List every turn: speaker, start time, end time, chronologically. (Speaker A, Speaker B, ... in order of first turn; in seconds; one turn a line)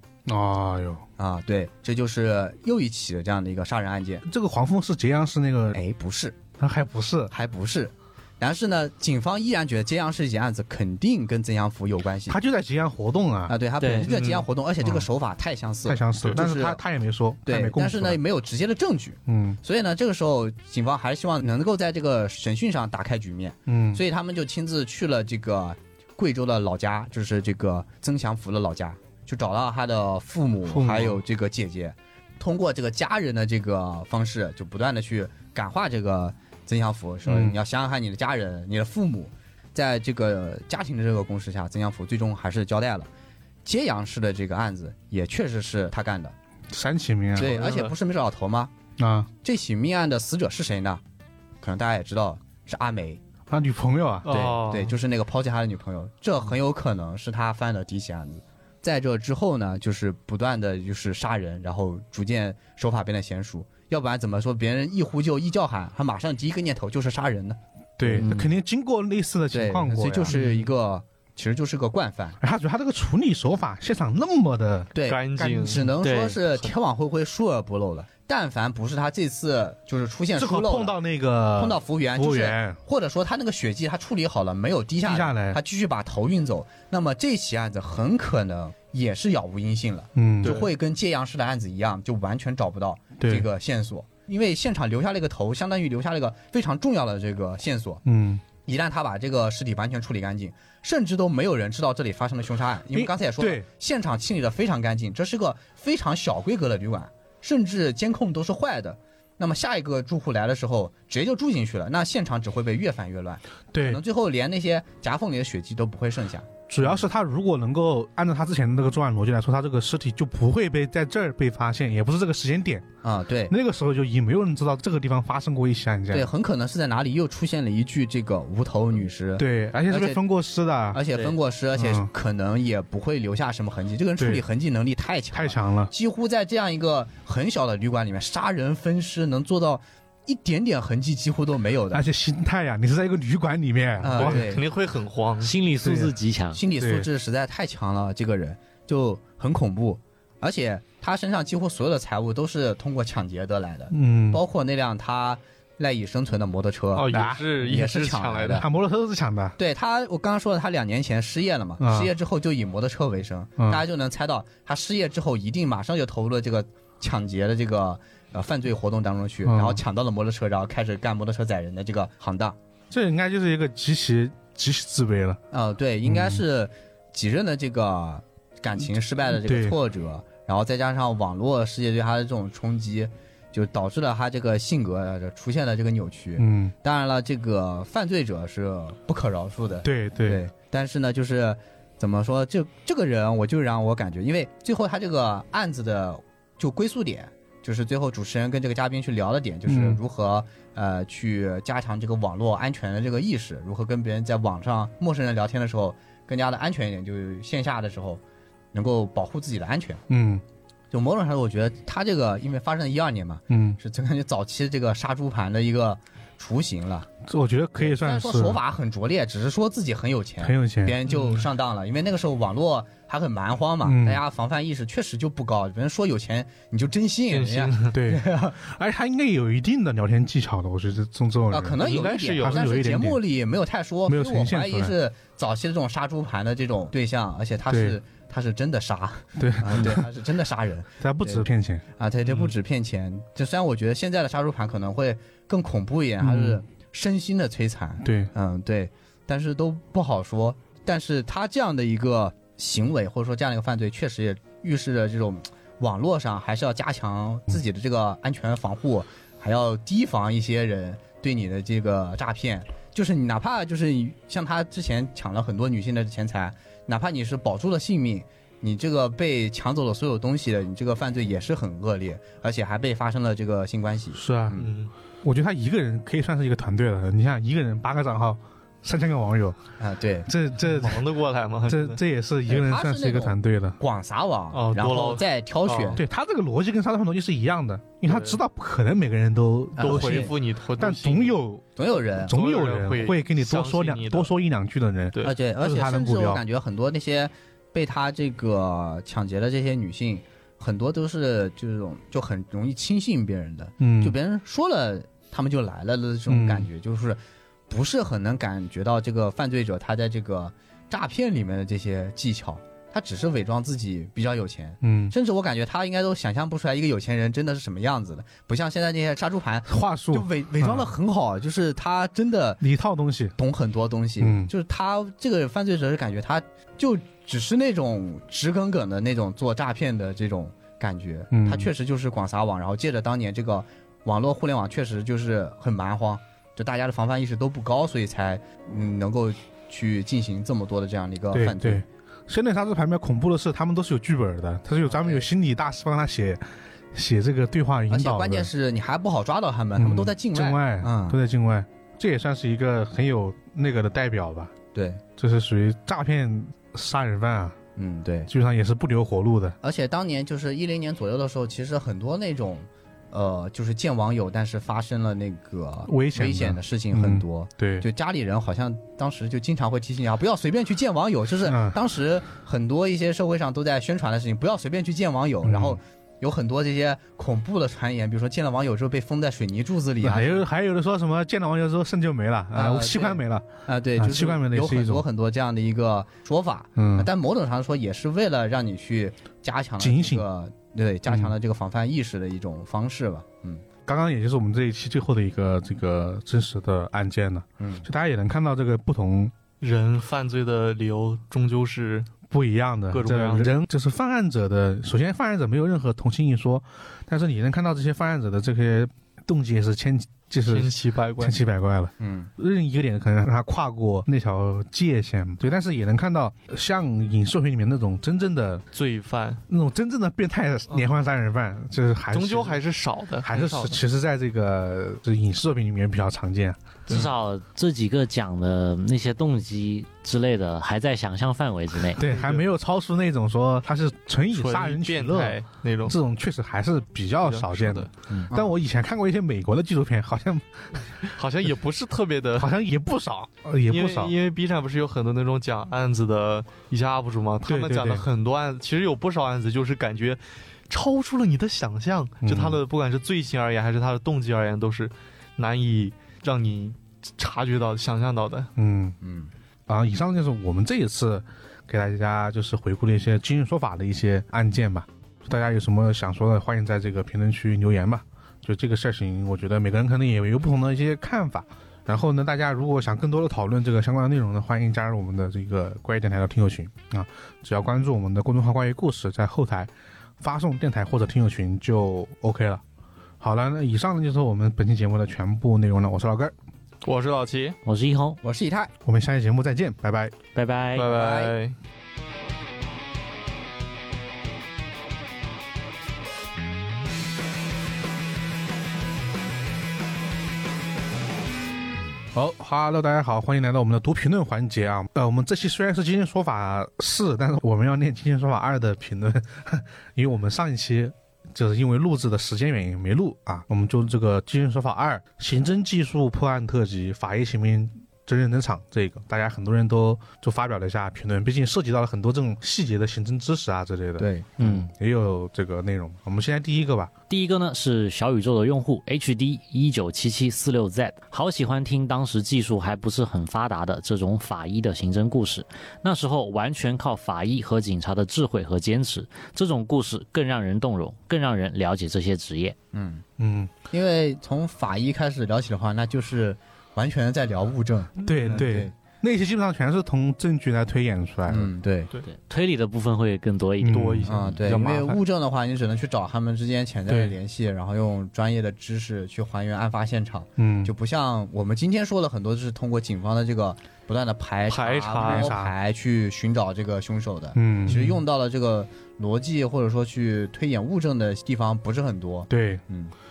Speaker A: 0.3-1.1
Speaker B: 1.2-4.2
Speaker A: 4.2-5.8
Speaker B: 5.7-6.4
Speaker A: 6.6-7.3
Speaker B: 7.3-12.4
Speaker A: 12.3-13.6
Speaker B: 13.5-16.8
Speaker C: 13.8-14.1
Speaker D: 14.0-14.5
Speaker A: 14.8-15.1
Speaker A: 15.8-18.2
Speaker B: 17.5-43.1
Speaker A: 19.3-19.6
Speaker A: 23.7-24.0
Speaker A: 30.7-31.2
Speaker A: 37.2-37.6
Speaker B: 43.6-46.4
Speaker A: 46.7-47.6
Speaker B: 47.4-48.7
Speaker D: 47.4-48.0
Speaker A: 49.0-49.3
Speaker B: 49.4-51.0
Speaker B: 51.6-53.2
Speaker A: 53.5-54.3
Speaker D: 54.2-55.0
Speaker B: 54.3-68.3
Speaker A: 68.0-70.4
Speaker C: 68.2-68.5
Speaker B: 69.5-72.4
Speaker D: 70.3-70.6
Speaker A: 72.4-75.9
Speaker B: 75.0-80.9
Speaker D: 75.0-75.9
Speaker C: 76.0-76.4
Speaker A: 80.3-82.8
Speaker B: 81.6-98.0
Speaker A: 85.0-85.6
Speaker A: 90.2-90.6
Speaker D: 90.4-90.7
Speaker A: 93.2-93.5
Speaker A: 98.1-98.4
Speaker B: 98.7-117.0
Speaker A: 102.9-103.7
Speaker A: 113.7-114.0
Speaker A: 116.7-122.9
Speaker B: 123.0-123.5
Speaker A: 123.5-126.3
Speaker B: 126.1-130.2
Speaker A: 129.4-131.1
Speaker B: 130.9-142.0
Speaker A: 131.7-132.1
Speaker A: 134.2-134.4
Speaker A: 135.3-135.9
Speaker A: 141.9-144.6
Speaker B: 144.0-144.6
Speaker D: 144.1-145.5
Speaker C: 145.4-146.6
Speaker A: 145.8-146.1
Speaker B: 146.6-157.1
Speaker A: 146.8-147.1
Speaker A: 153.9-154.4
Speaker D: 156.9-158.7
Speaker A: 157.1-157.4
Speaker B: 157.6-158.7
Speaker A: 158.6-159.6
Speaker B: 159.6-172.6
Speaker A: 161.8-162.1
Speaker A: 169.4-169.8
Speaker A: 172.9-175.4
Speaker B: 175.5-208.2
Speaker A: 176.1-176.4
Speaker A: 179.3-179.8
Speaker A: 186.4-186.7
Speaker A: 189.8-190.4
Speaker A: 199.7-200.0
Speaker B: 208.7-210.0
Speaker A: 210.1-210.4
Speaker B: 210.9-217.1
Speaker A: 213.5-213.8
Speaker A: 217.2-218.6
Speaker B: 217.8-228.6
Speaker A: 220.4-221.0
Speaker D: 221.1-221.4
Speaker A: 223.8-224.2
Speaker D: 227.3-227.9
Speaker A: 227.9-231.8
Speaker B: 231.5-274.7
Speaker D: 231.8-232.8
Speaker A: 232.4-233.2
Speaker A: 234.1-235.0
Speaker A: 237.7-238.0
Speaker A: 239.4-240.1
Speaker A: 241.0-241.8
Speaker D: 242.2-242.5
Speaker A: 246.2-246.6
Speaker A: 248.0-248.3
Speaker A: 274.1-274.7
Speaker D: 274.6-274.9
Speaker A: 275.2-279.6
Speaker B: 279.8-280.3
Speaker A: 280.3-281.1
Speaker D: 280.6-282.0
Speaker A: 281.7-283.8
Speaker B: 282.5-286.0
Speaker D: 284.5-286.0
Speaker A: 286.0-296.4
Speaker D: 288.1-288.4
Speaker B: 289.8-290.3
Speaker D: 289.8-291.4
Speaker B: 291.8-292.4
Speaker D: 292.3-294.3
Speaker B: 295.2-307.2
Speaker A: 303.8-304.2
Speaker A: 306.3-306.7
Speaker B: 307.7-322.6
Speaker A: 314.8-315.1
Speaker A: 319.7-320.9
Speaker A: 322.6-323.4
Speaker B: 323.4-341.8
Speaker A: 324.2-324.5
Speaker A: 331.3-331.7
Speaker A: 341.3-348.5
Speaker B: 344.9-345.3
Speaker B: 347.9-351.2
Speaker A: 349.8-354.5
Speaker B: 354.7-355.0
Speaker A: 355.2-357.6
Speaker B: 357.8-358.3
Speaker A: 358.3-359.6
Speaker B: 359.6-380.4
Speaker A: 365.9-367.9
Speaker A: 371.4-371.8
Speaker A: 375.4-375.8
Speaker A: 380.0-385.1
Speaker B: 382.6-393.6
Speaker A: 386.8-387.1
Speaker A: 389.8-390.2
Speaker A: 391.1-391.3
Speaker A: 393.9-399.3
Speaker B: 397.6-397.9
Speaker D: 399.6-402.1
Speaker A: 402.3-418.6
Speaker D: 402.9-403.6
Speaker D: 410.5-411.4
Speaker B: 412.0-412.3
Speaker D: 418.7-419.4
Speaker A: 419.5-422.6
Speaker D: 422.1-423.8
Speaker A: 423.2-427.1
Speaker C: 426.9-432.0
Speaker A: 431.9-441.1
Speaker D: 432.0-432.5
Speaker D: 434.3-436.0
Speaker D: 437.2-437.9
Speaker D: 441.0-442.5
Speaker A: 442.4-444.1
Speaker D: 443.7-458.5
Speaker A: 447.4-448.1
Speaker A: 452.2-452.6
Speaker A: 458.6-459.0
Speaker B: 459.0-459.3
Speaker A: 459.7-482.6
Speaker A: 483.2-486.3
Speaker D: 486.8-487.6
Speaker C: 487.6-488.2
Speaker B: 488.2-488.7
Speaker A: 488.8-490.1
Speaker C: 490.4-490.9
Speaker D: 490.8-491.6
Speaker B: 490.9-491.3
Speaker A: 502.1-526.9
Speaker B: 524.0-524.3
Speaker C: 524.4-524.7
Speaker C: 527.1-542.5
Speaker B: 542.7-543.0
Speaker A: 543.2-543.5
Speaker B: 543.7-548.7
Speaker D: 548.0-548.5
Speaker A: 548.0-551.5
Speaker B: 551.3-551.9
Speaker C: 552.0-554.0
Speaker A: 553.6-554.3
Speaker D: 553.6-555.0
Speaker B: 554.1-572.9
Speaker A: 556.9-557.2
Speaker A: 560.4-560.7
Speaker D: 564.5-565.4
Speaker A: 565.0-565.5
Speaker A: 567.4-568.0
Speaker A: 572.3-572.6